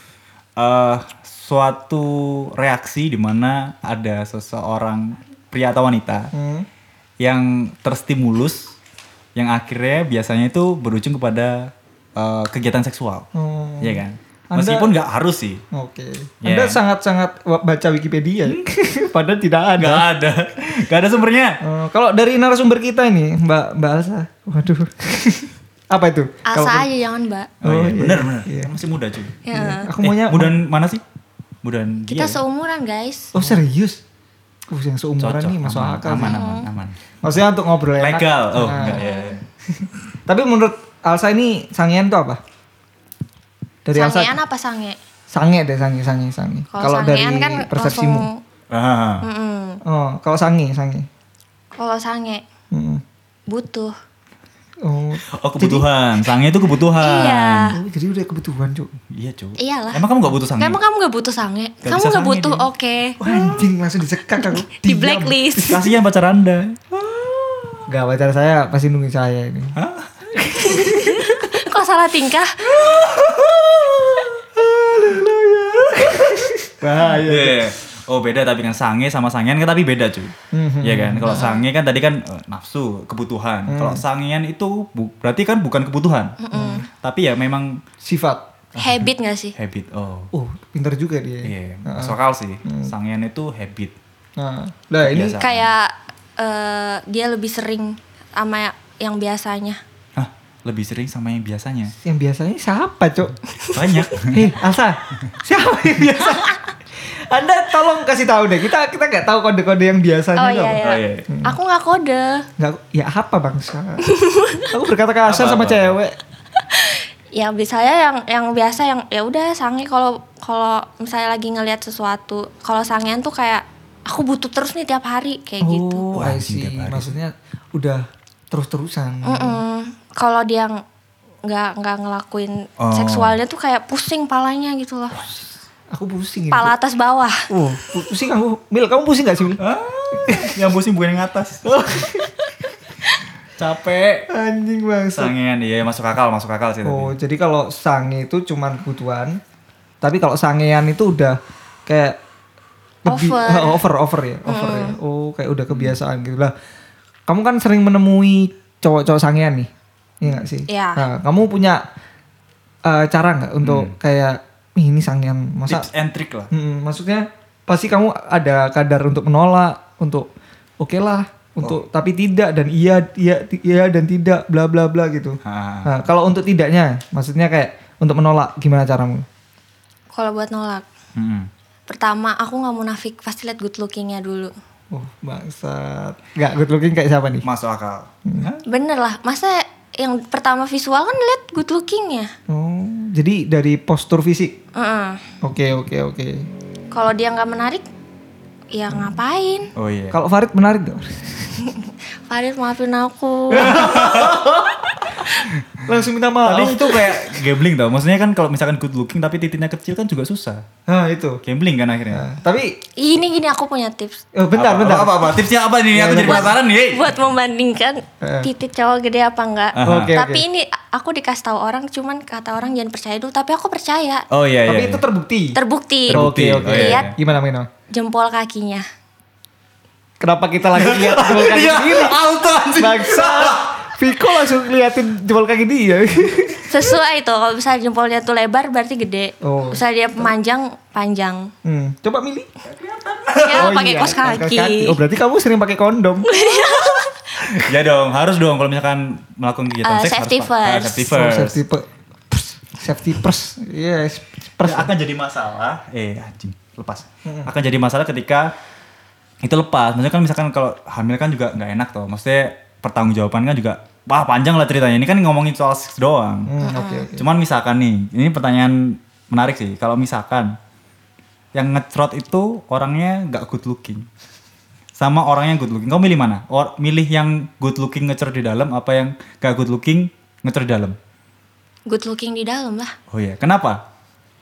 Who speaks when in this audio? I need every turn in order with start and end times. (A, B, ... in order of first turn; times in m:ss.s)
0:00.6-0:06.3 A
0:06.3-0:06.7 B
0:07.2-0:08.7 A
0:09.4-0:13.2 A
0:13.3-0:14.9 B
0:13.8-0:15.6 A
0:15.7-0:20.0 B
0:16.4-0:16.8 A
0:19.8-0:21.6 A
0:21.6-0:26.9 B
0:26.4-0:27.5 C
0:27.6-0:28.7 B
0:27.6-0:29.4 A
0:29.4-0:29.9 C
0:29.5-0:30.6 B
0:30.0-0:31.0 A
0:31.6-0:32.4 A
0:32.1-0:33.3 C
0:33.3-0:34.0 B
0:34.7-0:36.4 B
0:35.2-0:37.0 A
0:36.2-0:36.7 C
0:37.2-0:39.0 B
0:38.0-0:39.4 A
0:38.9-0:39.4 C
0:39.7-0:42.4 B
0:43.8-0:44.4 B
0:43.9-0:45.0 C
0:45.3-0:48.3 B
0:46.7-0:48.4 C
0:48.7-0:49.2 A
0:49.2-0:49.8 C
0:49.8-0:51.1 B
0:51.8-0:52.4 C
0:52.7-0:53.0 B
0:53.5-0:53.9 C
0:54.8-0:55.9 B
0:55.3-0:57.7 A
0:57.0-0:57.8 C
0:57.7-0:58.9 B
0:59.1-1:00.8 A
0:59.6-1:00.0 C
1:00.6-1:03.2 C
1:01.8-1:02.7 A
1:03.2-1:05.9 B
1:04.4-1:05.8 C
1:05.7-1:07.8 A
1:07.9-1:09.7 B
1:09.8-1:10.8 A
1:10.4-1:11.3 B
1:10.7-1:12.6 C
1:12.7-1:26.4 A
1:16.0-1:17.7 B
1:20.5-1:21.4 B
1:21.3-1:21.6 C
1:23.7-1:24.0 B
1:26.4-1:26.8 C
1:26.5-1:26.9 B
1:26.9-1:27.8 A
1:28.0-1:28.4 B
1:28.8-1:29.5 C
1:28.8-1:30.3 A
1:30.3-1:32.9 B
1:31.4-1:33.9 A
1:34.4-1:35.4 B
1:35.0-1:35.7 A
1:35.4-1:39.8 C
1:40.2-1:41.9 A
1:42.0-1:43.4 B
1:43.6-1:44.1 C
1:43.7-1:44.5 A
1:44.3-1:51.5 B
1:50.4-1:52.4 C
1:50.8-1:51.2 A
1:52.6-1:54.0 B
1:54.0-1:54.7 C
1:54.6-1:56.2 B
1:55.3-1:55.9 A
1:56.6-2:06.1 C
2:05.6-2:09.6 B
2:06.1-2:07.1 A
2:09.2-2:10.8 C
2:11.4-2:15.2 C
2:12.8-2:13.4 A
2:15.9-2:16.7 B
2:16.5-2:17.4 C
2:17.5-2:20.6 B
2:19.6-2:22.2 A
2:21.8-2:22.3 B
2:23.6-2:24.2 A
2:24.3-2:25.3 B
2:25.1-2:27.1 A
2:26.8-2:29.4 B
2:30.0-2:32.2 B
2:33.0-2:33.8 C
2:33.0-2:36.5 B
2:34.5-2:35.0 C
2:37.3-2:39.7 B
2:40.2-2:41.8 B
2:40.6-2:41.0 C
2:42.8-2:45.9 B
2:43.6-2:43.9 A
2:45.7-2:46.5 A
2:46.5-2:50.3 B
2:50.8-2:59.2 B
2:55.4-2:55.9 A
3:00.1-3:00.8 C
3:01.2-3:01.5 A
3:01.9-3:04.5 C
3:04.9-3:07.4 B
3:07.4-3:08.6 A
3:08.6-3:12.3 C
3:12.5-3:14.6 B
3:14.7-3:15.2 C
3:15.4-3:16.5 B
3:16.9-3:17.8 C
3:18.7-3:19.7 C
3:19.8-3:20.2 A
3:20.1-3:21.5 B
3:21.5-3:25.4 C
3:23.5-3:24.8 B
3:23.6-3:24.4 A
3:25.8-3:27.3 B
3:26.4-3:30.6 A
3:30.9-3:31.4 B
3:31.4-3:32.2 A
3:32.1-3:32.8 B
3:33.0-3:34.2 C
3:34.3-3:35.4 B
3:34.5-3:37.1 A
3:35.9-3:36.6 B
3:36.2-3:44.2 C
3:38.2-3:38.5 B
3:39.8-3:40.1 A
3:39.8-3:40.4 B
3:44.3-3:45.0 A
3:44.6-3:45.6 B
3:45.5-3:47.1 C
3:46.1-3:47.1 A
3:46.1-3:47.7 B
3:47.9-3:48.8 C
3:50.2-3:52.2 B
3:50.8-3:53.8 A
3:52.7-3:56.9 B
3:56.7-4:01.5 C
3:59.4-4:00.3 B
4:01.6-4:02.5 B
4:02.6-4:03.8 A
4:03.4-4:05.0 C
4:03.5-4:06.3 B
4:06.2-4:07.3 C
4:07.0-4:11.6 A
4:09.8-4:11.0 C
4:11.0-4:14.9 B
4:14.6-4:18.5 A
4:17.2-4:17.5 B
4:19.4-4:26.5 A
4:26.5-4:27.3 B
4:26.6-4:27.1 C
4:27.2-4:30.5 A
4:31.5-4:34.0 A
4:35.0-4:41.0 A
4:41.9-4:42.9 C
4:43.1-4:43.8 A